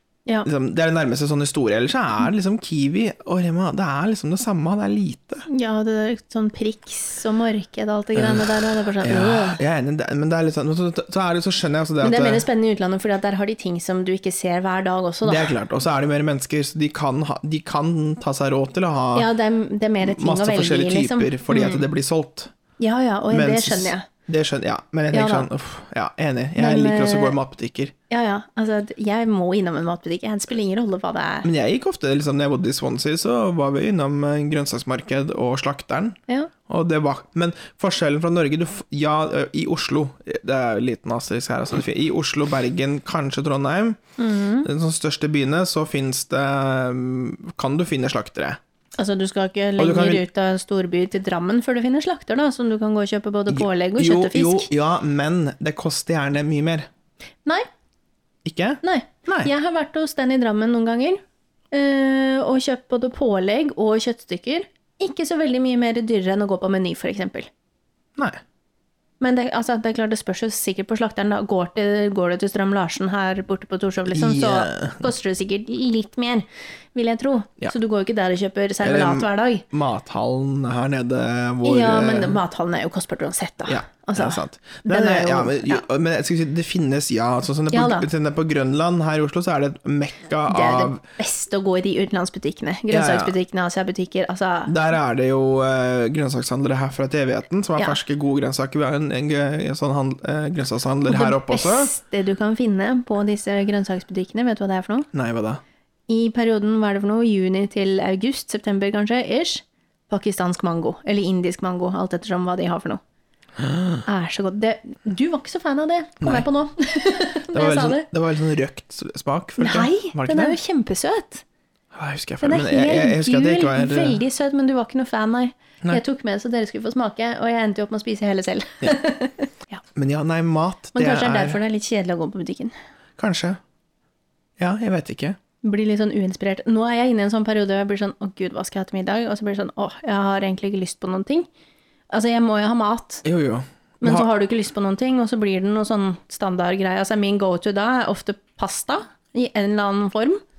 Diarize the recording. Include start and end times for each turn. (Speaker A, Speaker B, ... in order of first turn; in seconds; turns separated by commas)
Speaker A: 0.4-5.5, Speaker B: 5.5-9.6, Speaker A: 8.1-12.4, Speaker B: 12.0-15.5, Speaker A: 15.2-19.3, Speaker B: 19.1-21.8, Speaker A: 20.0-22.5, Speaker B: 22.8-24.0, Speaker A: 23.3-27.9, Speaker B: 25.1-25.5, Speaker B: 26.6-27.3, Speaker B: 28.1-31.5, Speaker A: 31.4-44.0, Speaker B: 44.2-44.7, Speaker A: 44.6-48.6, Speaker B: 49.0-54.7, Speaker A: 49.8-50.2, Speaker A: 53.5-56.9, Speaker A: 58.4-59.5, Speaker B: 58.8-61.2, Speaker B: 61.7-67.5, Speaker B: 69.2-79.6, Speaker A: 74.1-75.1, Speaker A: 78.8-82.4, Speaker B: 81.6-85.8, Speaker A: 83.7-91.0, Speaker B: 87.7-88.1, Speaker B: 90.5-94.7, Speaker A: 92.9-93.3, Speaker A: 94.7-101.9, Speaker B: 101.1-105.1, Speaker A: 105.1-105.6, Speaker B: 106.1-113.0, Speaker A: 113.6-114.0, Speaker B: 114.0-118.1, Speaker A: 116.2-116.5, Speaker A: 117.5-120.5, Speaker B: 119.6-121.4, Speaker A: 121.9-124.2, Speaker B: 122.4-129.8, Speaker A: 129.9-131.6, Speaker B: 130.9-132.7, Speaker A: 133.2-133.6, Speaker A: 134.6-135.4, Speaker B: 135.6-141.5, Speaker B: 142.1-143.2, Speaker A: 143.2-144.3, Speaker B: 144.0-150.4